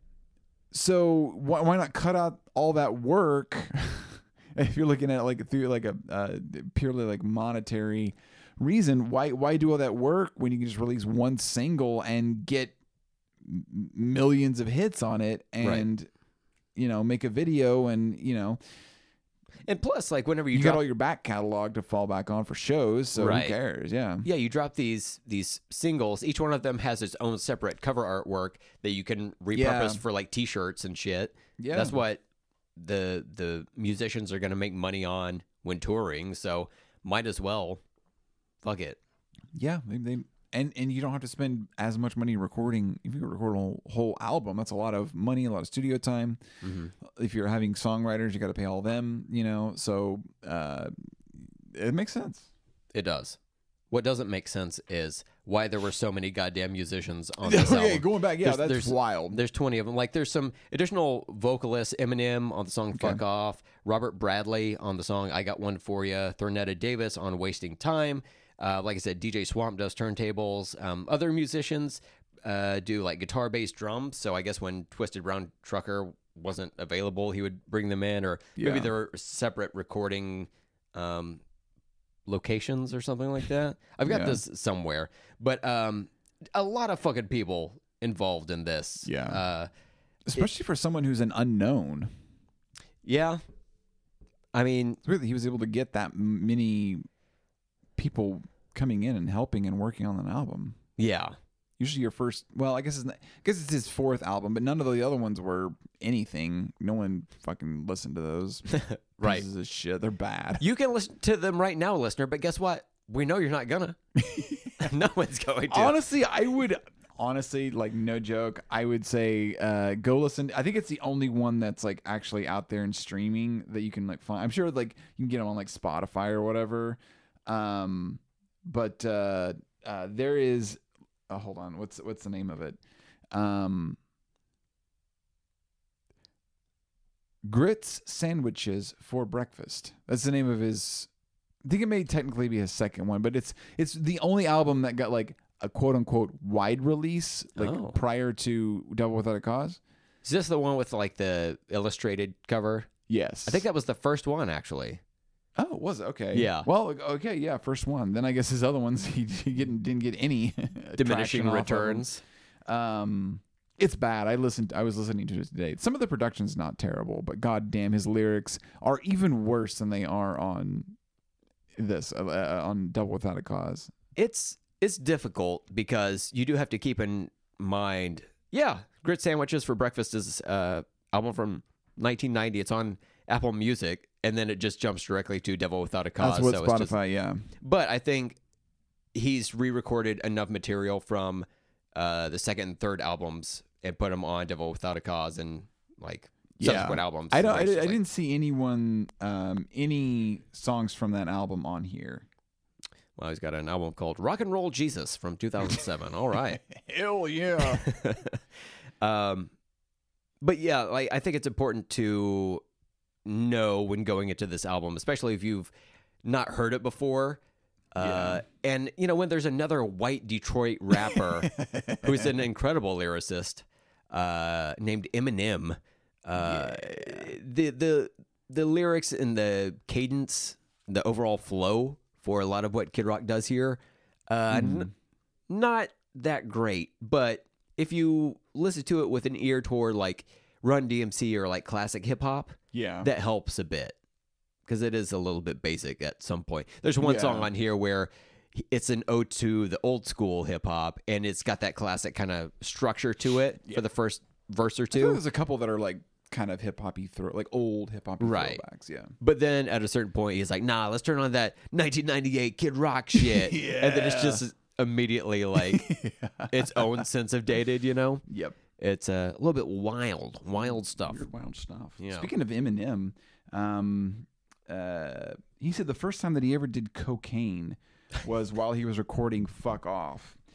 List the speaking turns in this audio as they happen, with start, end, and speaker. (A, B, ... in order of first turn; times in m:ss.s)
0:00.7-0:12.8 A
0:13.4-0:16.1 A
0:15.6-0:15.9 B
0:16.8-0:18.6 A
0:19.7-0:20.8 B
0:20.5-0:24.3 A
0:23.2-0:23.6 B
0:24.2-0:32.2 B
0:29.5-0:30.0 A
0:31.6-0:32.0 A
0:32.8-0:37.8 B
0:38.6-0:39.0 B
0:39.5-0:46.4 A
0:46.6-0:46.9 B
0:47.0-0:52.5 A
0:52.9-0:53.4 B
0:53.9-1:21.4 B
0:57.4-0:59.4 A
1:02.9-1:03.2 A
1:18.6-1:18.9 A
1:22.3-1:29.7 B
1:24.1-1:24.4 A
1:29.0-1:29.4 A
1:30.3-1:32.1 A
1:33.0-1:33.4 B
1:34.5-1:35.0 B
1:35.0-1:37.1 A
1:38.0-1:40.8 A
1:41.0-1:41.4 B
1:41.8-1:50.6 A
1:48.7-1:49.4 B
1:50.6-1:54.0 B
1:54.2-1:54.9 A
1:54.8-1:56.0 B
1:55.7-2:12.8 A
2:13.3-2:14.0 A
2:17.4-2:21.1 A
2:21.6-2:29.8 A
2:27.6-2:28.0 B
2:30.2-2:32.9 B
2:33.1-2:33.7 A
2:33.5-2:35.0 B
2:35.6-2:42.1 A
2:36.3-2:36.7 B
2:41.0-2:42.2 B
2:42.7-2:51.0 A
2:51.8-2:53.9 A
2:54.2-3:06.9 B
3:06.2-3:07.4 A
3:07.6-3:08.4 B
3:09.1-3:18.0 B
3:16.6-3:22.2 A
3:23.2-3:26.6 B
3:26.7-3:27.9 A
3:27.7-3:28.4 B
3:29.0-3:29.5 B
3:30.4-3:32.6 B
3:33.2-3:35.7 B
3:36.2-3:37.4 B
3:37.9-3:54.9 B
3:38.0-3:38.4 A
3:41.1-3:42.3 A
3:46.4-3:47.3 A
3:54.5-3:54.9 A
3:55.5-4:04.0 B
4:02.7-4:03.1 A
4:04.7-4:15.2 B
4:07.0-4:07.5 A
4:14.9-4:19.1 A
4:18.2-4:18.6 B
4:19.2-4:25.9 B
4:23.1-4:24.4 A
4:25.6-4:27.1 A
4:26.5-4:28.2 B
4:28.3-4:28.6 A
4:28.8-4:31.2 B
4:30.6-4:40.4 A
4:32.0-4:32.3 B